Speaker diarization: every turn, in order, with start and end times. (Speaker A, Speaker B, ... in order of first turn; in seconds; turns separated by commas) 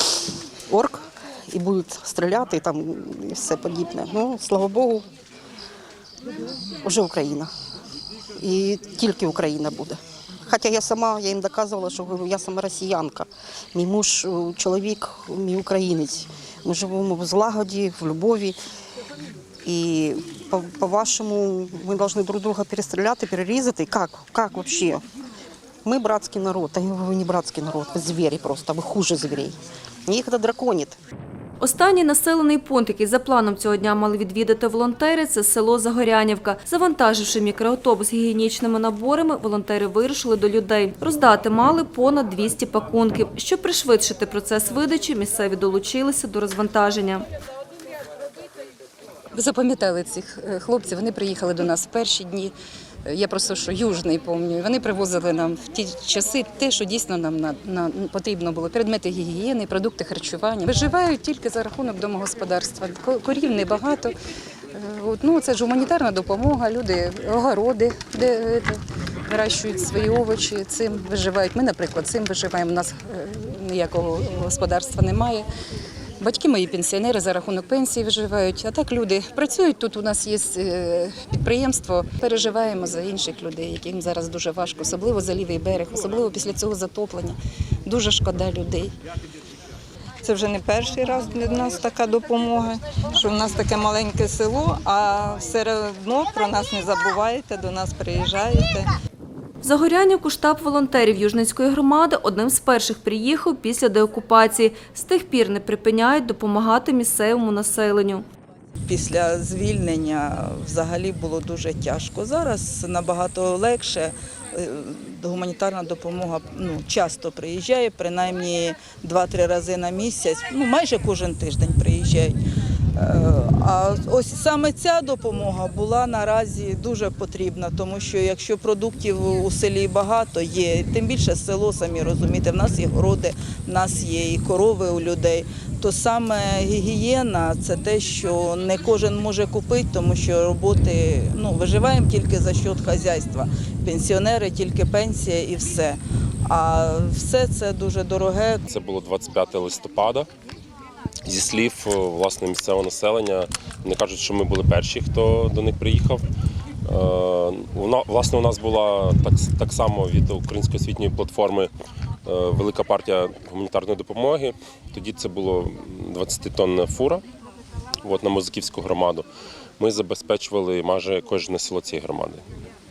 Speaker A: 0.7-5.0, Speaker A: 6.8-7.5, Speaker A: 8.4-18.6, Speaker A: 19.6-25.0, Speaker A: 25.9-29.6, Speaker A: 30.1-31.0, Speaker B: 31.6-47.2, Speaker C: 49.3-52.5, Speaker C: 53.0-64.2, Speaker C: 64.7-75.5, Speaker C: 76.2-88.9, Speaker D: 90.2-98.9, Speaker B: 99.6-108.2, Speaker E: 108.9-122.3, Speaker E: 123.0-148.6, Speaker F: 148.7-150.3, Speaker F: 151.3-156.2, Speaker F: 156.9-161.7, Speaker F: 162.3-167.2, Speaker F: 168.1-169.3, Speaker F: 169.8-172.4